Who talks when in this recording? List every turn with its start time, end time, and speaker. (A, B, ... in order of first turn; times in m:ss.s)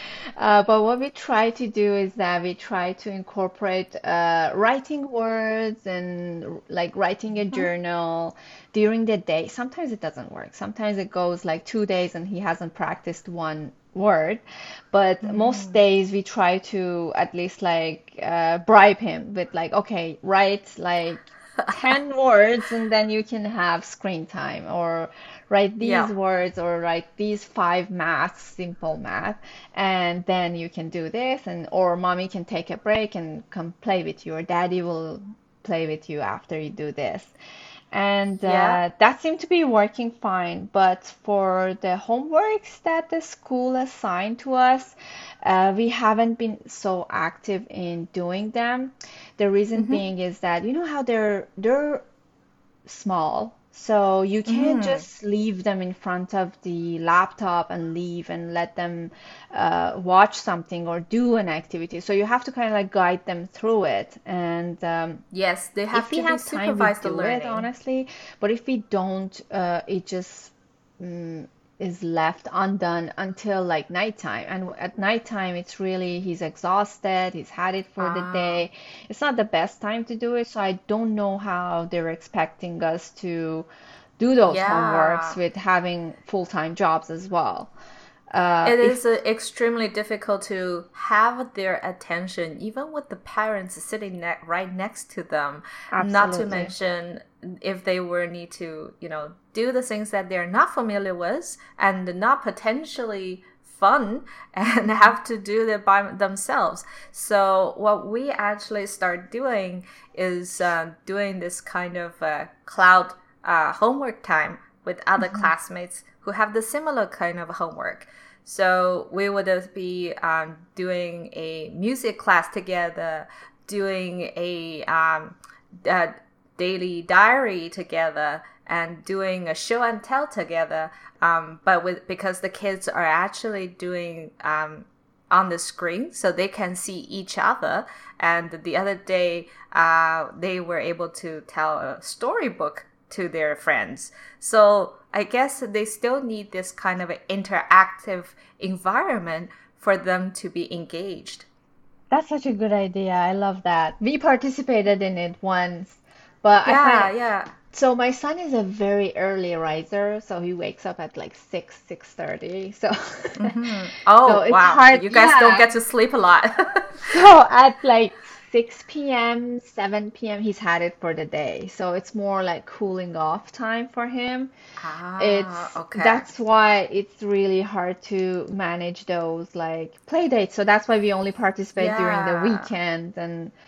0:00.4-0:37.3 A
0:15.2-0:15.8 B
0:25.8-0:26.1 B
0:37.9-0:52.0 A
0:38.4-0:38.8 B
0:49.8-0:50.0 B
0:52.8-1:05.2 A
0:54.4-0:55.0 B
1:05.3-1:07.7 B
1:05.9-1:23.7 A
1:18.0-1:18.6 B
1:24.2-1:27.7 A
1:24.5-1:25.4 B
1:28.3-1:29.0 A
1:28.6-2:31.5 B
1:35.9-1:36.7 A
2:32.1-2:37.1 A
2:36.6-2:37.5 B
2:37.7-2:43.7 A
2:43.4-2:47.1 B
2:44.2-2:45.7 A
2:47.0-2:54.5 A
2:54.8-2:56.3 B
2:55.2-3:03.5 A
3:01.8-3:02.7 B